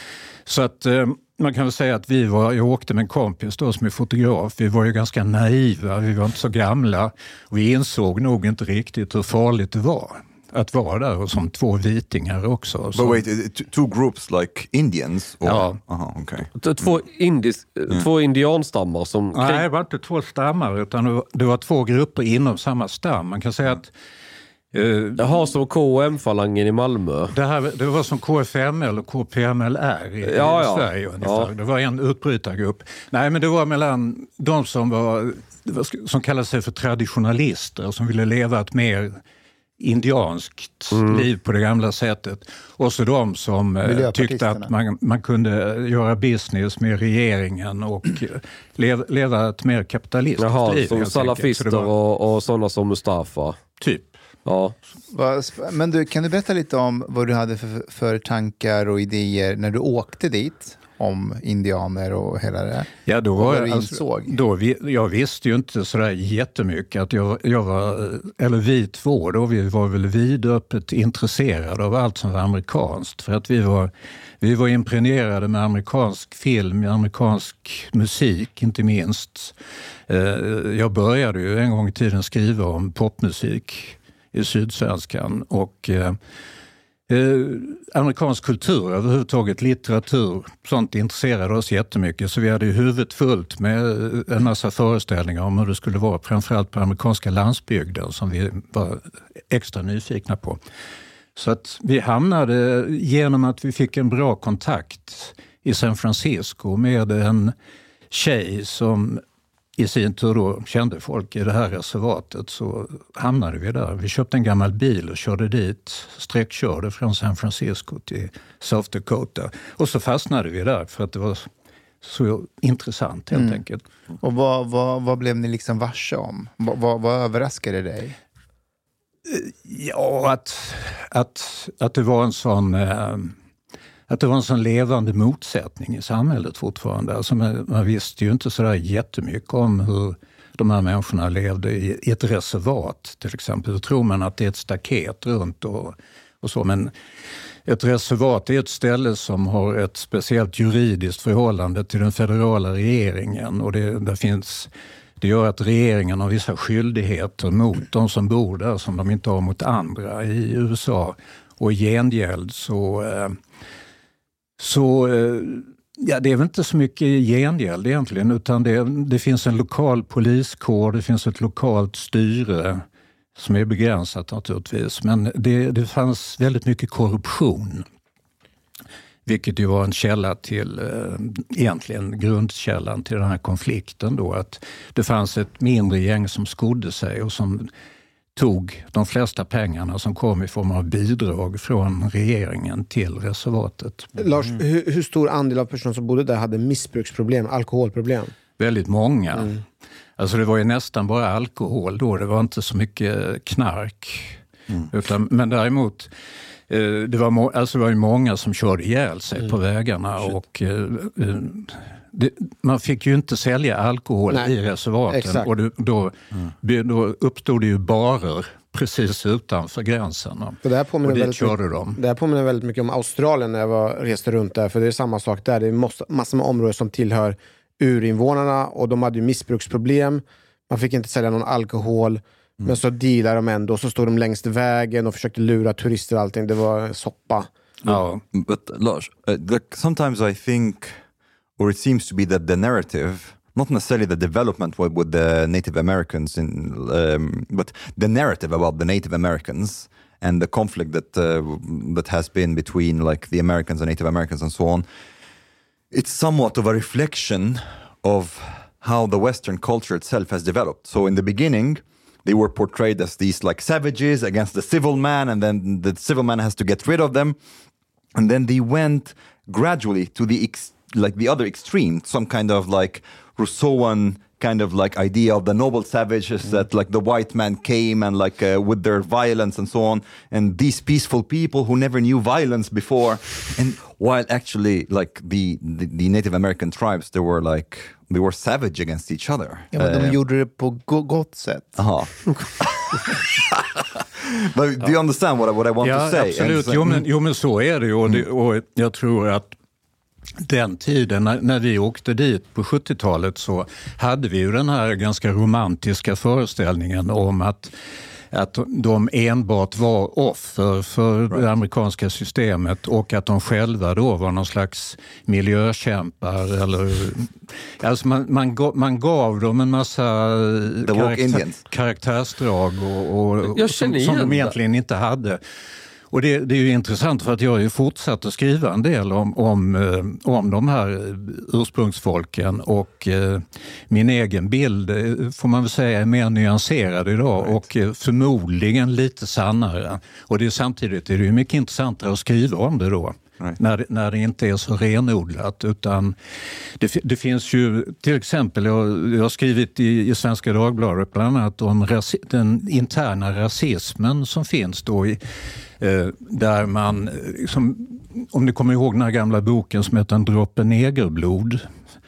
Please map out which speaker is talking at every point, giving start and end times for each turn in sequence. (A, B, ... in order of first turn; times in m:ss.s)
0:00.4-0:13.2 A
0:12.9-0:16.5 B
0:15.4-0:15.8 A
0:16.6-0:19.6 C
0:19.3-0:23.9 A
0:24.7-0:25.2 A
0:25.2-0:27.3 C
0:27.3-0:39.2 A
0:30.2-0:31.5 C
0:39.8-0:51.9 A
0:40.9-0:41.2 C
0:43.8-0:44.7 D
0:50.4-0:53.6 C
0:53.8-0:54.2 A
0:54.4-0:54.7 C
0:55.1-1:04.3 D
1:03.0-1:19.5 A
1:20.1-1:26.2 A
1:27.1-1:40.6 A
1:41.4-1:47.5 A
1:48.1-1:49.2 A
1:49.8-2:01.5 A
2:02.0-2:03.8 A
2:03.3-2:03.6 D
2:04.2-2:08.2 D
2:09.2-2:13.3 A
2:14.1-2:26.9 A
2:27.6-2:43.4 A
2:44.6-2:52.8 A
2:53.4-2:57.8 A
2:59.2-3:07.7 A
3:08.3-3:14.1 A
3:14.2-3:18.3 E
3:18.6-3:19.6 A
3:20.2-3:26.1 A
3:26.7-3:42.0 A
3:35.1-3:35.5 E
3:40.6-3:57.5 E
3:57.8-3:58.2 A
3:57.9-4:01.0 B
4:01.6-4:14.9 B
4:15.9-4:27.4 B
4:28.1-4:50.2 B
4:49.7-4:51.8 D
4:51.8-4:53.2 B
4:54.5-4:57.0 B
4:55.8-4:59.5 A
5:00.4-5:07.7 A
5:08.3-5:25.4 A
5:20.8-5:21.6 B
5:23.5-5:24.5 C
5:26.1-5:46.2 A
5:46.8-5:55.2 A
5:55.8-6:01.6 A